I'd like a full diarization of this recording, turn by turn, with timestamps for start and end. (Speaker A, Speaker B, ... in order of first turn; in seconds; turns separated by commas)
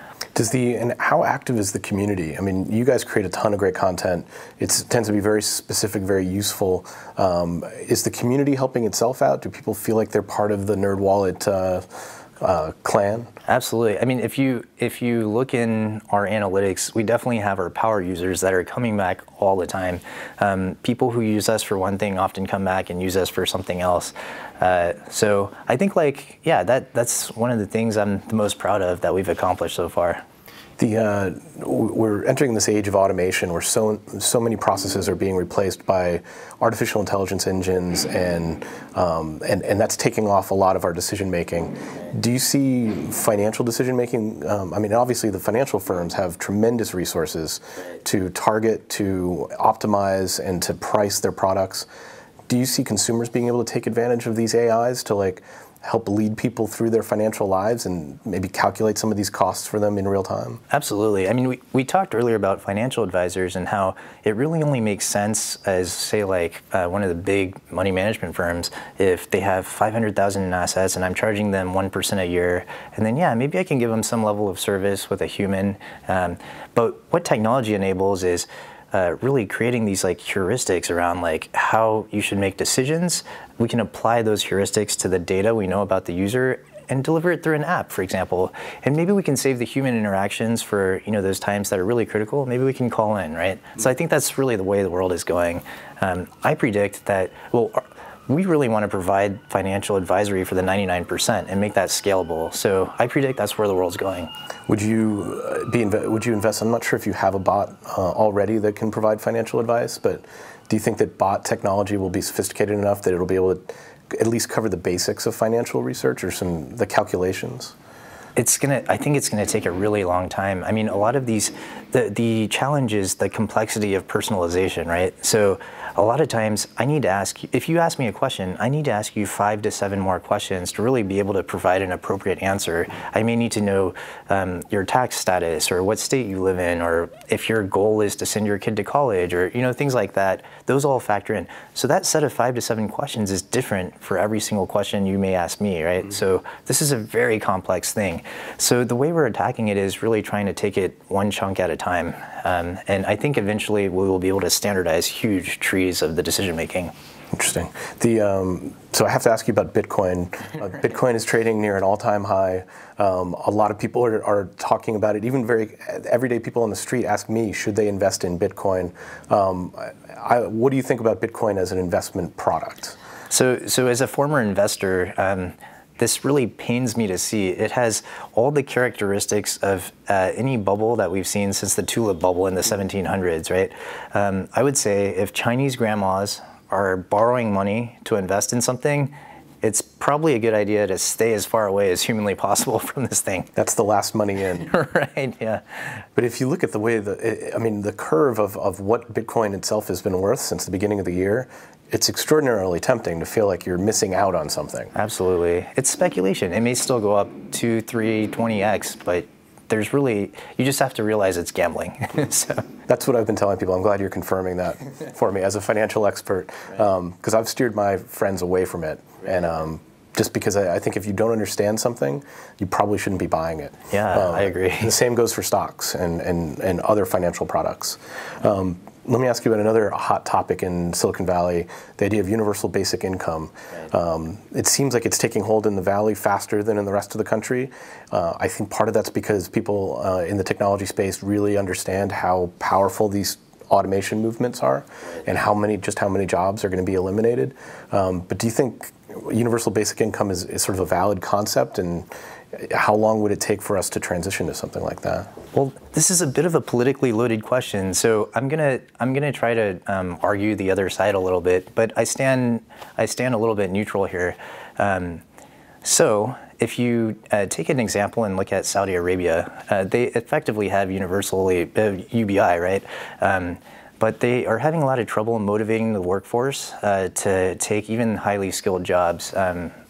Speaker A: 0.3-11.9, Speaker A: 12.4-13.3, Speaker B: 13.5-30.2, Speaker A: 30.8-51.9, Speaker A: 52.5-60.6, Speaker B: 60.7-104.3, Speaker A: 104.7-117.8, Speaker B: 118.4-156.9, Speaker A: 157.3-173.0, Speaker B: 173.3-193.5, Speaker A: 193.6-194.7, Speaker B: 194.6-195.6, Speaker A: 196.2-204.9, Speaker B: 204.9-212.7, Speaker A: 212.9-255.3, Speaker B: 223.9-224.9, Speaker B: 255.5-265.2, Speaker B: 265.8-279.7